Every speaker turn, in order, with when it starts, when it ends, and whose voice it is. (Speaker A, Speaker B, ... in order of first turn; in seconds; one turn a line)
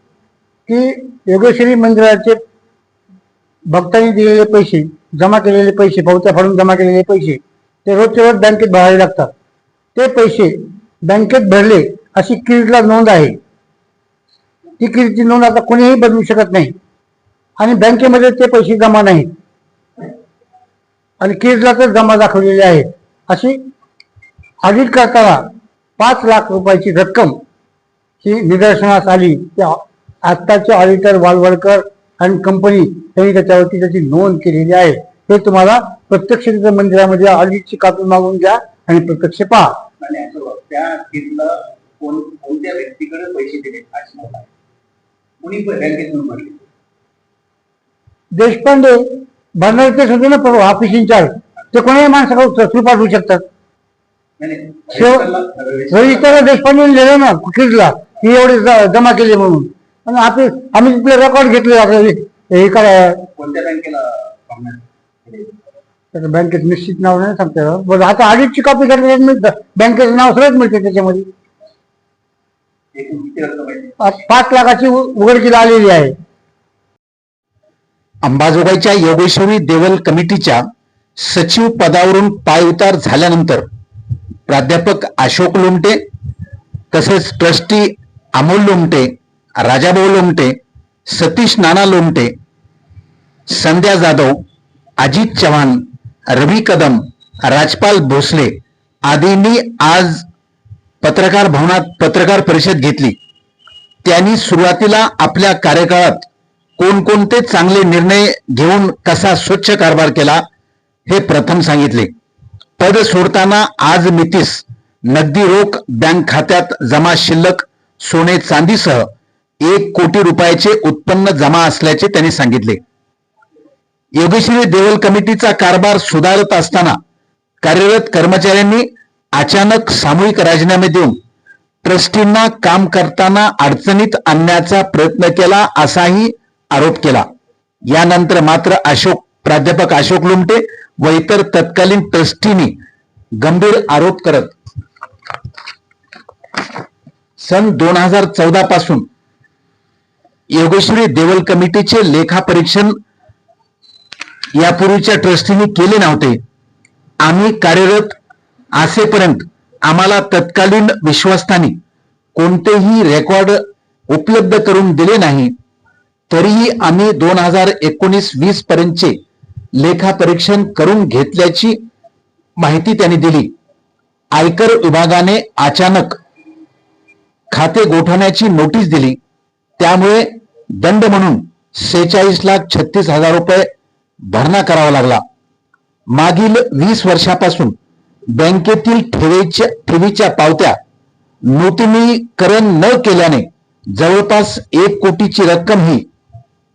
Speaker A: 0.7-2.4
Speaker A: 3.7-9.3
Speaker A: 9.9-10.5
Speaker A: 11.1-13.4
Speaker A: 14.8-16.7
Speaker A: 17.6-19.3
Speaker A: 21.2-23.6
Speaker A: 24.6-25.4
Speaker A: 26.0-27.4
Speaker A: 28.2-39.8
Speaker B: 40.0-44.5
Speaker B: 45.4-46.6
Speaker A: 48.3-49.0
Speaker A: 49.6-53.4
Speaker B: 54.4-56.3
Speaker A: 54.9-55.3
Speaker A: 55.9-63.3
Speaker B: 63.4-65.5
Speaker A: 66.1-71.3
Speaker B: 73.0-74.0
Speaker A: 74.0-76.1
Speaker C: 78.2-80.6
Speaker C: 81.2-83.7
Speaker C: 84.5-86.0
Speaker C: 86.9-90.5
Speaker C: 91.1-92.3
Speaker C: 93.5-94.4
Speaker C: 95.0-98.5
Speaker C: 99.1-100.3
Speaker C: 101.0-103.2
Speaker C: 104.0-106.3
Speaker C: 106.8-110.4
Speaker C: 111.1-112.1
Speaker C: 112.8-119.1
Speaker C: 119.6-122.8
Speaker C: 124.2-127.0
Speaker C: 127.6-131.2
Speaker C: 131.8-137.2
Speaker C: 137.9-142.7
Speaker C: 143.4-144.5
Speaker C: 147.4-149.1
Speaker C: 150.5-152.9
Speaker C: 154.6-156.4
Speaker C: 157.2-158.2
Speaker C: 158.8-161.8
Speaker C: 162.3-165.5
Speaker C: 166.3-169.2
Speaker C: 169.8-171.8
Speaker C: 172.6-173.5
Speaker C: 174.3-176.2
Speaker C: 177.5-179.2
Speaker C: 179.8-183.7
Speaker C: 184.3-185.2
Speaker C: 186.1-187.8
Speaker C: 188.3-190.8
Speaker C: 191.5-196.0